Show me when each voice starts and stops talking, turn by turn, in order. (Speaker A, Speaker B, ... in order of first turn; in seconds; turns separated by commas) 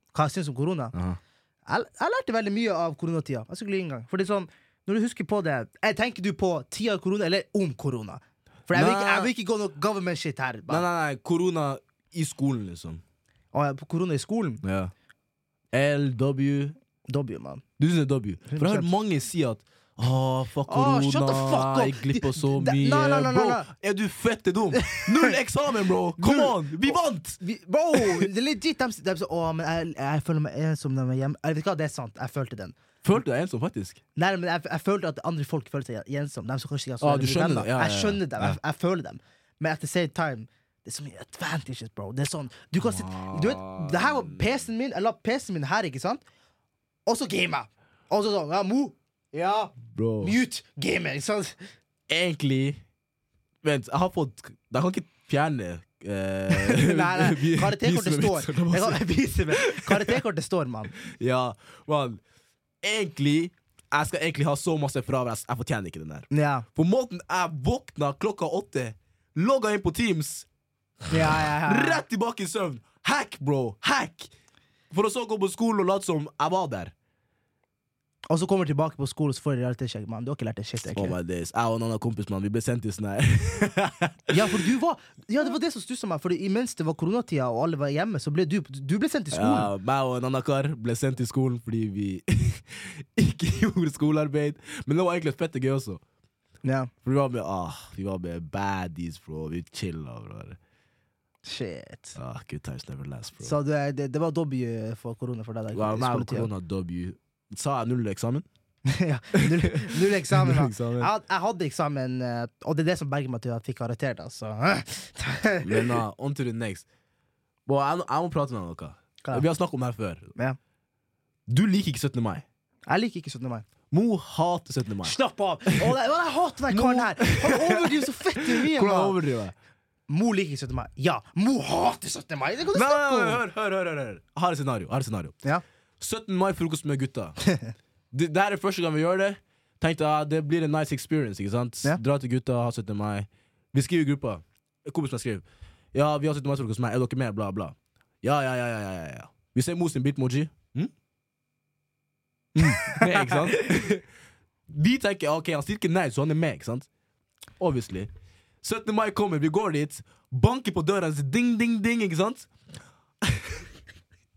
Speaker A: 0.1-0.9, Speaker B: 0.9-1.2, Speaker A: 1.7-10.8, Speaker B: 8.7-9.3, Speaker B: 10.7-13.0, Speaker A: 13.5-14.6, Speaker B: 14.6-14.9, Speaker B: 15.7-16.8, Speaker A: 17.1-17.6, Speaker B: 17.8-27.4, Speaker A: 18.5-18.9, Speaker A: 20.6-23.7, Speaker A: 24.7-25.3, Speaker A: 26.2-32.8, Speaker B: 27.9-28.2, Speaker B: 33.0-34.0, Speaker A: 34.1-46.2, Speaker B: 37.0-38.6, Speaker B: 42.8-44.6, Speaker A: 47.0-51.7, Speaker B: 49.9-50.4, Speaker B: 52.1-52.8, Speaker B: 53.6-60.2, Speaker A: 56.5-60.9, Speaker B: 61.0-62.2, Speaker B: 62.8-70.5, Speaker A: 66.3-66.7, Speaker B: 71.1-74.3, Speaker A: 71.1-72.0, Speaker B: 74.9-76.9, Speaker A: 78.3-81.2, Speaker B: 80.9-84.6, Speaker A: 84.3-89.7, Speaker B: 89.3-96.0, Speaker A: 96.6-96.9, Speaker B: 97.0-100.6, Speaker A: 101.4-102.2, Speaker B: 102.2-103.5, Speaker A: 103.4-106.5, Speaker B: 105.7-108.4, Speaker A: 108.8-116.0, Speaker B: 109.3-111.1, Speaker B: 115.6-116.8, Speaker B: 117.7-120.3, Speaker B: 121.5-122.4, Speaker A: 122.9-123.7, Speaker B: 123.9-125.2, Speaker A: 125.0-129.2, Speaker B: 125.7-125.9, Speaker B: 126.7-129.5, Speaker A: 130.1-133.4, Speaker B: 132.7-135.3, Speaker B: 136.0-137.4, Speaker A: 137.4-137.7, Speaker B: 138.1-150.9, Speaker B: 152.5-154.0, Speaker A: 152.6-153.2, Speaker B: 154.7-156.9, Speaker B: 157.6-158.1, Speaker B: 158.6-162.5, Speaker B: 163.2-163.6